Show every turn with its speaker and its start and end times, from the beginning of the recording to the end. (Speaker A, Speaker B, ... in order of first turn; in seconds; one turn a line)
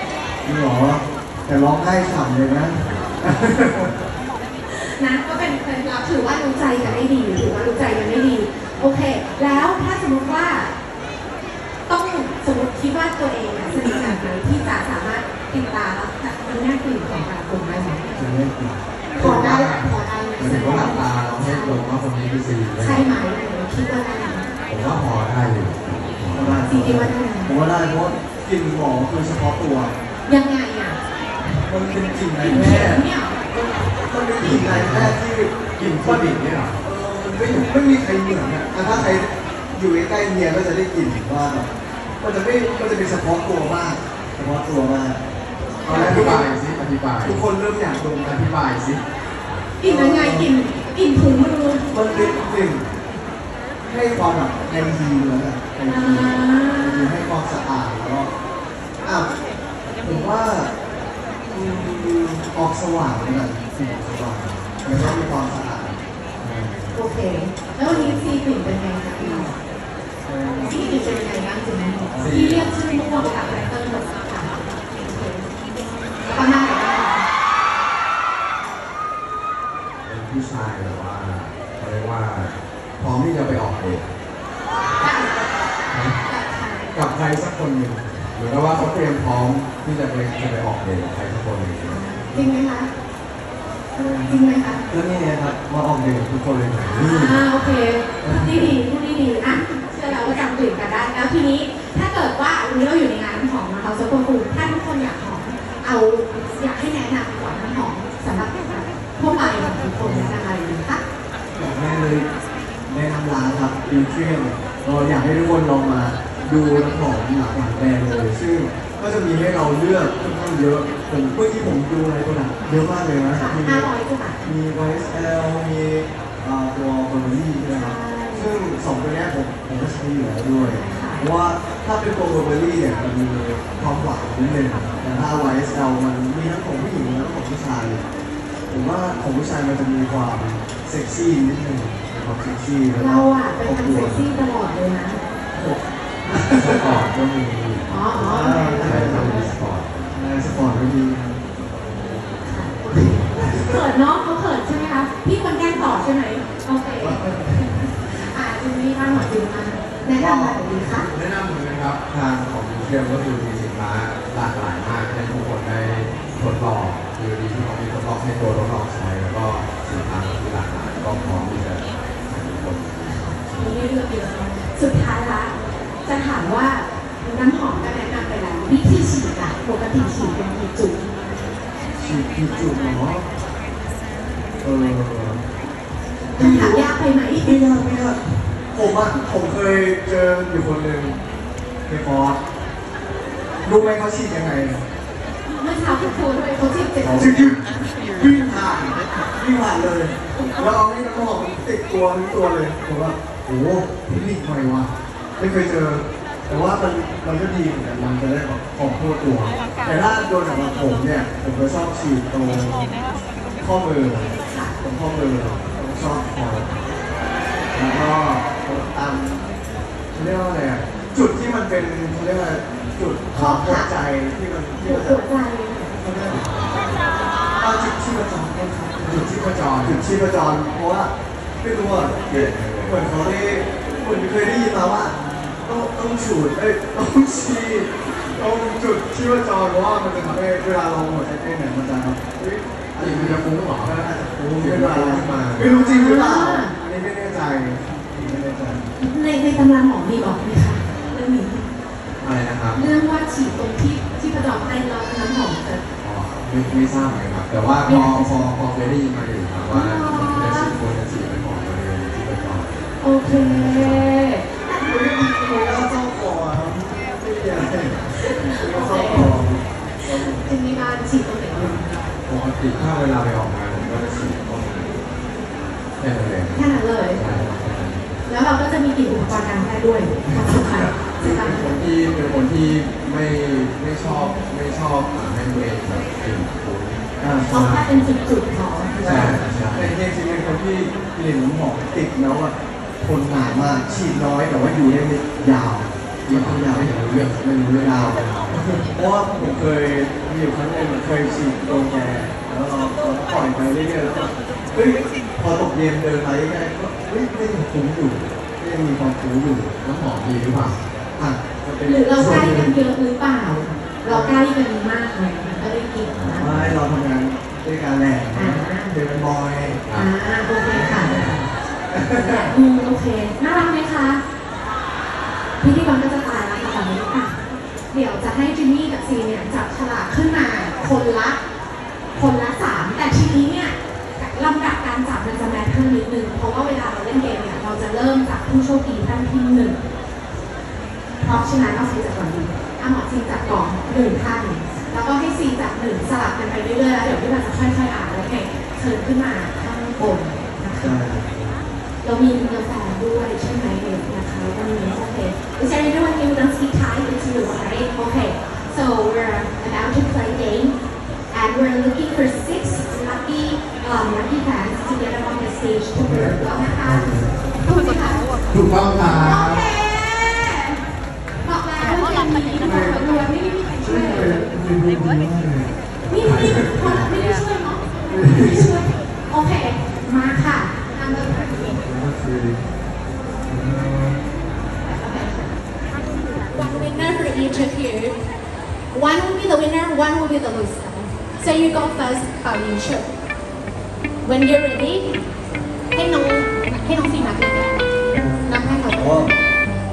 Speaker A: 0.4-3.9
Speaker B: 4.7-10.7
Speaker B: 11.9-18.1
Speaker A: 18.1-18.8
Speaker B: 19.1-21.9
Speaker C: 19.1-23.1
Speaker B: 22.8-24.5
Speaker C: 24.7-26.6
Speaker A: 26.3-29.9
Speaker B: 26.6-27.5
Speaker B: 30.2-31.0
Speaker A: 31.6-41.7
Speaker B: 32.4-33.4
Speaker C: 34.4-35.2
Speaker C: 35.8-36.8
Speaker C: 38.9-39.2
Speaker A: 42.2-45.2
Speaker B: 45.8-46.3
Speaker A: 45.8-46.5
Speaker C: 45.9-47.4
Speaker A: 47.2-48.4
Speaker C: 48.2-49.0
Speaker B: 49.8-52.6
Speaker A: 49.8-50.5
Speaker A: 51.9-52.9
Speaker A: 53.9-58.3
Speaker B: 55.9-57.1
Speaker A: 59.0-59.3
Speaker A: 60.0-60.7
Speaker A: 61.5-67.0
Speaker B: 64.9-65.2
Speaker B: 66.9-69.6
Speaker A: 67.8-68.2
Speaker A: 70.2-71.1
Speaker B: 70.6-75.5
Speaker A: 72.0-72.4
Speaker C: 72.2-72.8
Speaker B: 76.2-77.3
Speaker C: 80.0-84.0
Speaker B: 85.0-85.4
Speaker C: 85.9-86.2
Speaker B: 86.2-87.0
Speaker C: 86.9-92.0
Speaker B: 91.8-92.9
Speaker A: 92.2-92.5
Speaker A: 93.9-94.3
Speaker B: 94.2-94.8
Speaker A: 94.9-97.4
Speaker B: 96.8-111.0
Speaker A: 98.2-98.8
Speaker A: 109.3-110.4
Speaker A: 111.5-112.3
Speaker A: 112.9-123.9
Speaker B: 123.3-124.4
Speaker A: 124.4-138.0
Speaker B: 127.7-128.5
Speaker B: 130.6-131.2
Speaker A: 138.7-144.2
Speaker B: 142.9-145.2
Speaker A: 145.5-147.1
Speaker C: 146.5-150.3
Speaker B: 147.9-149.5
Speaker A: 148.2-149.4
Speaker A: 150.1-151.4
Speaker B: 152.4-161.1
Speaker A: 153.2-153.8
Speaker A: 157.0-157.7
Speaker C: 160.2-173.8
Speaker A: 160.2-160.7
Speaker B: 173.1-181.3
Speaker A: 181.9-183.2
Speaker A: 184.6-185.4
Speaker A: 186.3-186.9
Speaker B: 186.3-187.6
Speaker A: 187.4-191.2
Speaker A: 191.8-192.4
Speaker A: 193.6-194.8
Speaker B: 195.4-197.5
Speaker C: 197.0-197.6
Speaker A: 197.1-212.9
Speaker A: 213.6-216.8
Speaker B: 214.4-214.8
Speaker A: 217.7-219.4
Speaker A: 220.1-225.2
Speaker B: 223.3-223.9
Speaker B: 224.8-226.0
Speaker A: 226.0-226.4
Speaker C: 226.3-227.1
Speaker A: 227.6-248.9
Speaker C: 229.0-230.1
Speaker C: 232.3-233.2
Speaker C: 243.0-244.0
Speaker C: 244.5-245.8
Speaker B: 245.7-246.7
Speaker B: 249.0-251.7
Speaker C: 252.2-252.9
Speaker B: 252.8-255.8
Speaker C: 256.0-263.0
Speaker B: 257.8-258.5
Speaker B: 259.7-260.7
Speaker B: 263.0-264.5
Speaker A: 263.3-263.6
Speaker C: 263.5-264.1
Speaker A: 264.7-270.5
Speaker B: 268.1-269.4
Speaker B: 270.0-271.9
Speaker A: 271.5-271.8
Speaker C: 272.2-275.0
Speaker C: 276.0-278.1
Speaker B: 276.5-277.2
Speaker B: 278.2-281.7
Speaker C: 280.4-287.1
Speaker A: 287.2-287.9
Speaker B: 287.5-289.4
Speaker A: 289.0-297.0
Speaker C: 289.0-289.9
Speaker C: 296.2-298.9
Speaker A: 297.8-298.2
Speaker A: 298.8-309.7
Speaker C: 309.8-310.8
Speaker A: 311.1-312.8
Speaker B: 311.8-316.6
Speaker A: 314.0-314.4
Speaker C: 316.1-316.8
Speaker A: 316.4-319.9
Speaker B: 318.3-318.9
Speaker B: 319.9-321.4
Speaker A: 320.7-322.5
Speaker B: 322.1-324.2
Speaker B: 325.6-331.4
Speaker B: 332.1-339.8
Speaker B: 341.2-351.0
Speaker A: 341.3-341.7
Speaker A: 350.6-351.7
Speaker B: 352.0-360.8
Speaker B: 361.3-368.3
Speaker A: 366.1-367.3
Speaker C: 366.1-366.4
Speaker C: 368.5-369.7
Speaker B: 369.0-370.8
Speaker B: 371.4-374.5
Speaker A: 373.8-375.7
Speaker B: 376.1-381.8
Speaker C: 376.2-377.1
Speaker A: 378.1-378.7
Speaker A: 381.9-382.5
Speaker A: 383.5-384.2
Speaker B: 384.8-385.5
Speaker B: 386.5-388.3
Speaker B: 388.9-393.1
Speaker B: 394.2-395.2
Speaker B: 395.9-397.9
Speaker A: 398.1-399.3
Speaker B: 398.4-399.3